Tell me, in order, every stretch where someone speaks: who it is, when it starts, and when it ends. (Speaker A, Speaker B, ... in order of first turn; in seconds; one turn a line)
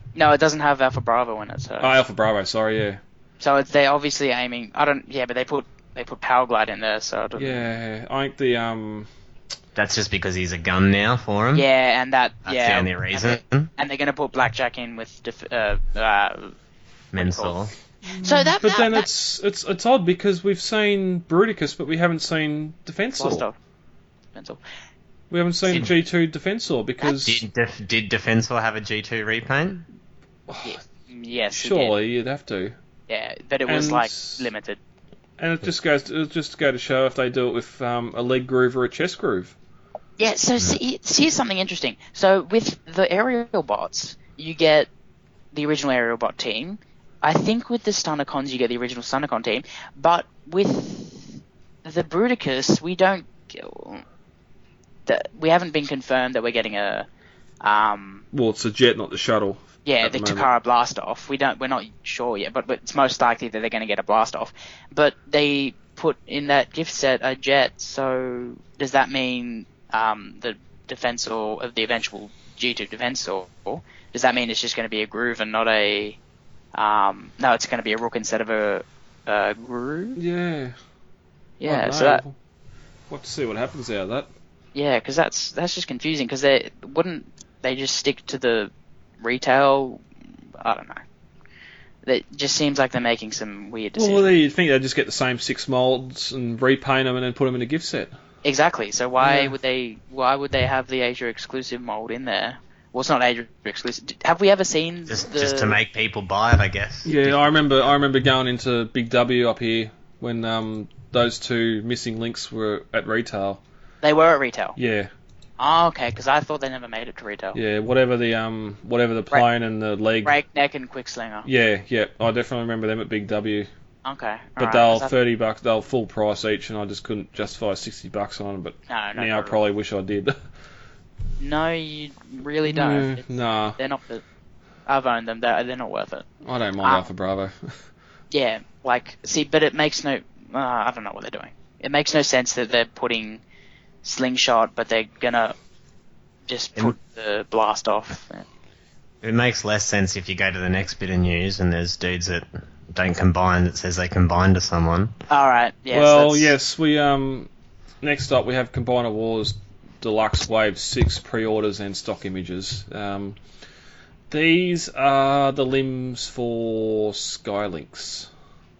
Speaker A: 0.1-2.0
Speaker B: 1.8-3.0
Speaker A: 3.4-7.6
Speaker B: 7.3-9.1
Speaker C: 9.7-11.7
Speaker A: 11.5-16.5
Speaker C: 12.4-13.7
Speaker C: 17.1-17.7
Speaker A: 17.1-17.6
Speaker B: 18.1-23.4
Speaker A: 18.2-19.1
Speaker A: 23.1-23.5
Speaker A: 24.3-24.6
Speaker B: 25.3-27.4
Speaker C: 27.1-29.8
Speaker B: 30.5-30.8
Speaker A: 30.6-31.9
Speaker B: 31.5-32.8
Speaker A: 33.1-34.8
Speaker B: 33.6-34.5
Speaker B: 35.4-39.5
Speaker A: 40.2-44.9
Speaker A: 45.5-54.0
Speaker A: 55.0-57.1
Speaker A: 57.6-58.2
Speaker B: 58.3-60.5
Speaker A: 59.8-76.2
Speaker A: 76.7-80.2
Speaker B: 80.2-80.7
Speaker A: 81.6-82.2
Speaker B: 81.6-82.3
Speaker B: 83.1-84.3
Speaker A: 84.7-90.0
Speaker A: 90.6-91.0
Speaker A: 92.0-94.3
Speaker B: 94.0-98.1
Speaker A: 98.4-105.8
Speaker B: 99.2-99.5
Speaker C: 105.1-107.5
Speaker B: 107.0-113.6
Speaker A: 114.0-114.8
Speaker B: 114.8-115.1
Speaker A: 115.6-117.6
Speaker B: 117.5-120.4
Speaker A: 120.2-121.5
Speaker B: 121.4-123.7
Speaker A: 124.0-125.1
Speaker B: 124.6-130.3
Speaker A: 128.9-129.6
Speaker A: 131.4-134.2
Speaker B: 132.7-133.8
Speaker A: 134.8-136.3
Speaker B: 136.4-137.8
Speaker A: 136.8-137.1
Speaker A: 138.3-143.4
Speaker A: 144.0-145.6
Speaker A: 146.5-148.4
Speaker C: 149.2-155.1
Speaker A: 155.3-156.5
Speaker B: 155.9-157.5
Speaker B: 158.0-163.4
Speaker B: 164.3-168.3